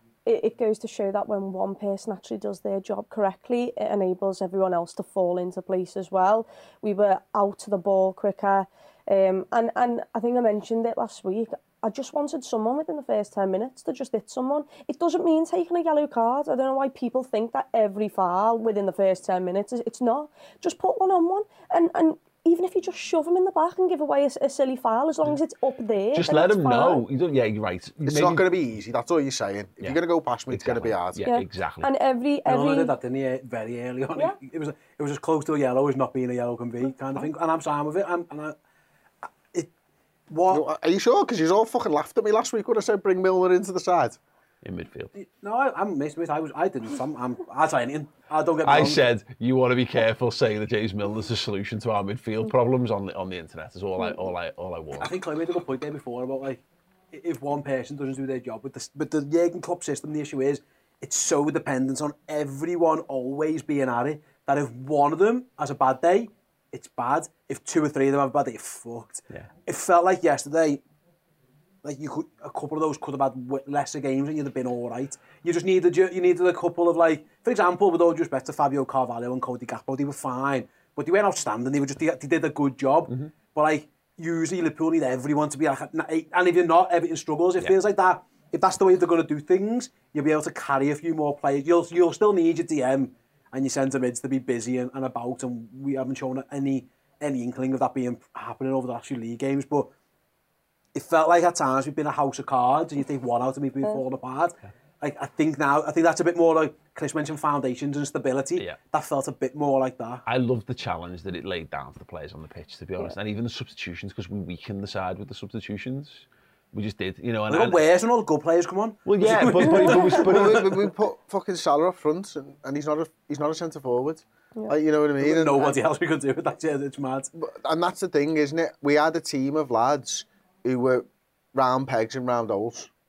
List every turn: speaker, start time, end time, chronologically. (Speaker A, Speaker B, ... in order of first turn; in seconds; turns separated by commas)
Speaker A: 0.2-27.0, Speaker B: 26.1-28.5, Speaker C: 28.0-31.2, Speaker B: 29.8-31.9, Speaker A: 31.2-32.9, Speaker D: 32.5-38.5, Speaker D: 40.3-40.6, Speaker C: 40.5-44.2, Speaker B: 44.6-45.1, Speaker D: 45.1-49.0, Speaker B: 48.6-55.1, Speaker D: 55.0-56.6, Speaker D: 57.1-70.8, Speaker D: 71.8-99.9, Speaker D: 100.9-110.2, Speaker B: 110.2-117.8, Speaker D: 117.5-120.5, Speaker B: 119.0-120.7, Speaker C: 120.2-125.8, Speaker D: 125.2-127.3, Speaker C: 127.3-132.9